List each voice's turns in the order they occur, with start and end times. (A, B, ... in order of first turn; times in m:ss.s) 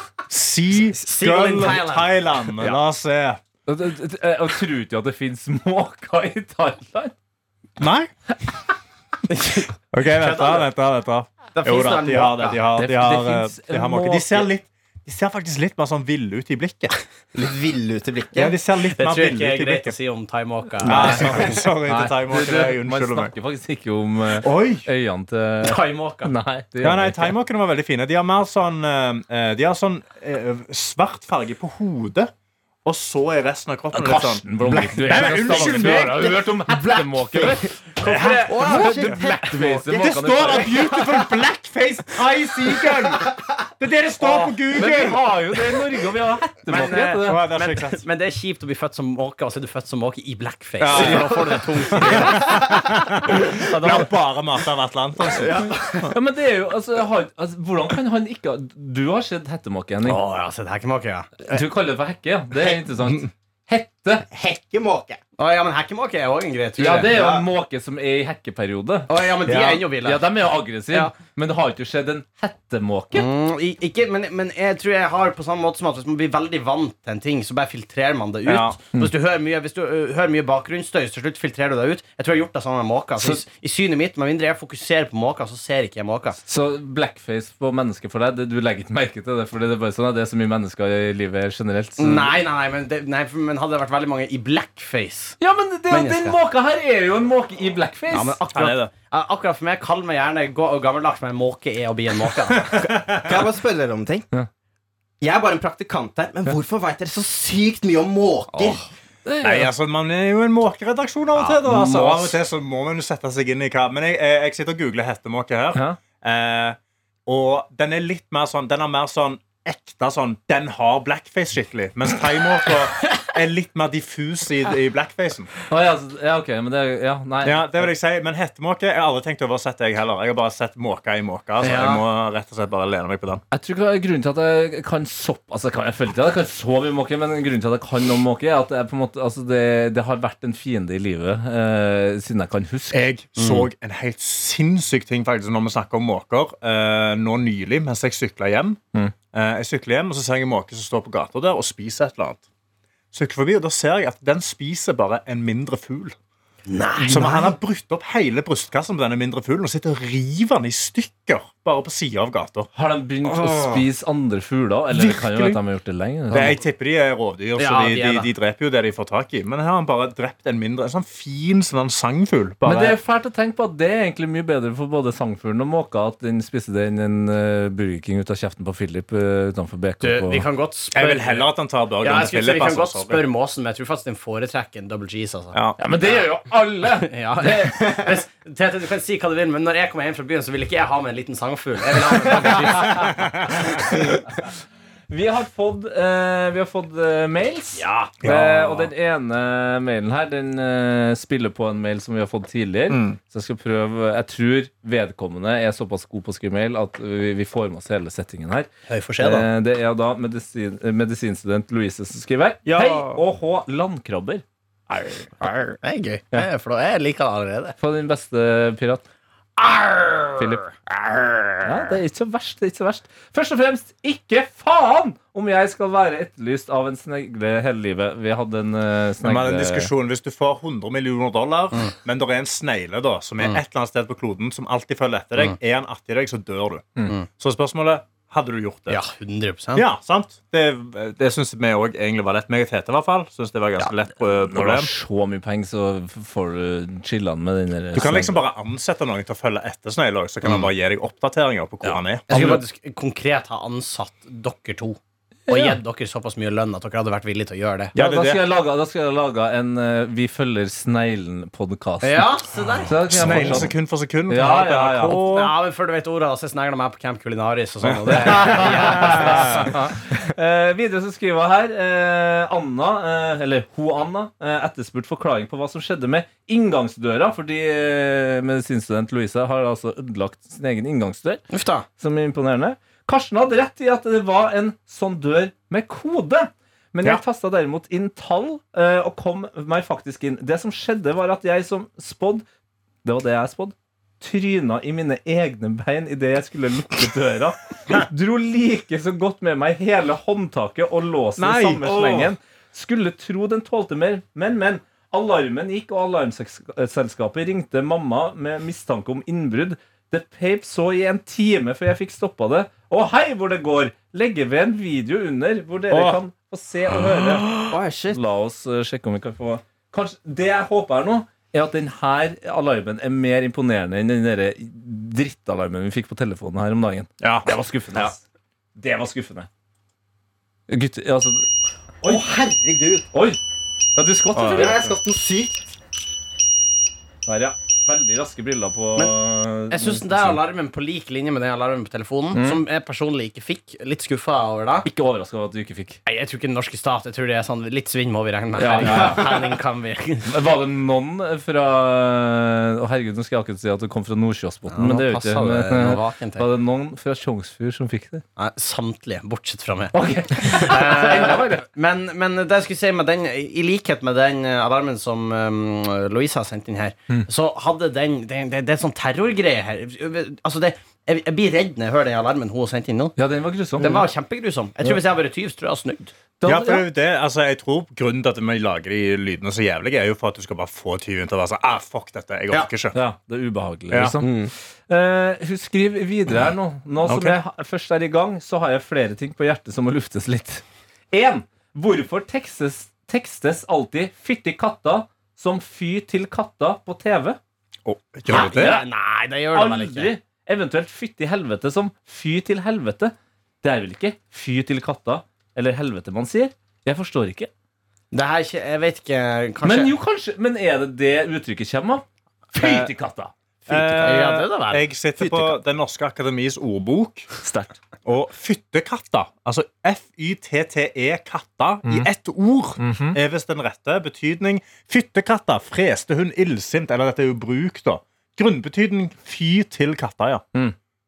0:00.3-0:03.4 A
0:00.9-0:02.8 B
0:03.7-0:07.2 C
0:07.8-0:08.1 A
0:09.3-0:10.7 B
0:09.9-0:17.0 A
0:11.5-0:12.6 B
0:12.8-0:14.5 C
0:17.3-0:18.6 D
0:18.3-0:20.0 A
0:18.9-0:21.6 B
0:20.8-0:23.3 A
0:20.8-0:27.4 C
0:24.4-0:24.9 A
0:25.6-0:26.3 B
0:26.8-0:32.3 A
0:32.8-0:36.3 A
0:33.9-0:40.9 C
0:34.8-0:37.7 D
0:38.0-0:39.2 A
0:38.5-0:39.9 D
0:39.8-0:45.2 A
0:43.1-0:43.4 D
0:44.2-0:47.4 C
0:46.6-0:52.9 B
0:47.2-0:48.0 A
0:50.8-0:56.1 A
0:50.9-0:52.4 D
0:53.6-0:54.1 C
0:55.4-0:56.1 D
0:56.0-1:00.2 C
1:00.0-1:01.5 B
1:01.4-1:04.3 C
1:04.3-1:05.2 D
1:05.4-1:07.2 B
1:06.8-1:09.1 C
1:07.0-1:07.4 D
1:09.1-1:10.3 B
1:09.5-1:09.8 A
1:10.0-1:13.3 C
1:13.1-1:26.4 B
1:18.5-1:18.8 A
1:26.5-1:32.4 C
1:32.0-1:35.4 B
1:35.4-1:38.4 C
1:35.9-1:36.4 B
1:38.1-1:42.9 B
1:38.5-1:38.9 A
1:42.7-1:43.4 A
1:43.2-1:44.3 D
1:45.2-1:48.8 D
1:48.5-1:48.8 B
1:49.2-1:49.7 C
1:49.4-2:05.5 A
1:51.4-1:52.4 B
1:55.7-1:56.0 C
2:05.7-2:07.9 C
2:07.4-2:13.4 A
2:11.6-2:12.0 B
2:13.5-2:23.0 C
2:22.9-2:28.8 A
2:23.4-2:23.7 B
2:29.3-2:32.4 A
2:33.1-2:36.2 A
2:36.7-2:37.6 B
2:37.0-2:42.7 A
2:42.8-2:46.6 C
2:43.3-2:43.8 A
2:44.9-2:45.6 A
2:46.3-2:53.0 A
2:47.6-2:48.3 B
2:52.6-3:00.4 C
3:00.0-3:01.5 B
3:00.9-3:03.2 A
3:02.0-3:06.2 B
3:05.8-3:08.0 C
3:06.9-3:14.0 B
3:13.0-3:13.4 A
3:15.1-3:35.3 C
3:17.8-3:18.1 B
3:18.2-3:18.9 A
3:22.9-3:23.2 A
3:28.9-3:29.5 A
3:32.6-3:33.2 A
3:35.4-3:37.8 B
3:37.8-3:39.0 C
3:39.6-3:41.7 B
3:40.4-3:40.7 C
3:41.6-3:49.9 C
3:49.2-3:59.0 A
3:58.9-3:59.9 B
3:59.8-4:04.9 A
4:04.2-4:08.4 C
4:07.9-4:12.6 A
4:10.4-4:10.7 B
4:11.8-4:17.9 B
4:12.3-4:12.6 C
4:15.5-4:15.8 C
4:18.0-4:18.4 A
4:18.0-4:22.3 C
4:22.0-4:23.6 B
4:22.9-4:23.8 C
4:23.1-4:25.5 A
4:24.3-4:25.2 C
4:25.1-4:29.9 B
4:27.8-4:29.8 A
4:28.1-4:41.4 C
4:41.5-4:41.9 B
4:42.0-4:52.4 C
4:53.0-5:28.2 C
5:01.4-5:02.3 A
5:15.9-5:16.2 A
5:17.6-5:18.2 D
5:27.2-5:28.1 A
5:28.8-5:29.5 C
5:30.7-5:31.5 C
5:32.0-5:33.1 D
5:33.1-5:33.4 C
5:34.0-5:34.9 C
5:34.4-5:34.9 A
5:34.4-5:35.6 D
5:37.3-5:40.4 C
5:39.7-5:44.9 B
5:42.3-5:42.6 C
5:44.8-5:46.0 C
5:46.1-5:50.3 B
5:48.6-5:49.4 C
5:50.3-5:58.2 C
5:54.7-5:56.5 B
5:58.4-6:13.2 B
5:59.9-6:01.6 C
6:13.2-6:14.1 C
6:13.8-6:16.1 B
6:16.4-6:16.8 C
6:16.4-6:23.0 A
6:22.9-6:37.4 C
6:23.9-6:24.2 A
6:24.2-6:24.5 D
6:27.1-6:27.4 A
6:37.8-6:38.8 A
6:38.3-6:38.9 C
6:38.3-6:40.1 B
6:39.5-6:47.5 C
6:48.1-6:49.9 B
6:49.6-6:53.3 C
6:52.6-6:52.9 A
6:53.7-6:55.5 B
6:53.7-6:57.3 A
6:57.4-6:57.8 C
6:58.0-7:10.5 A
7:02.8-7:03.2 C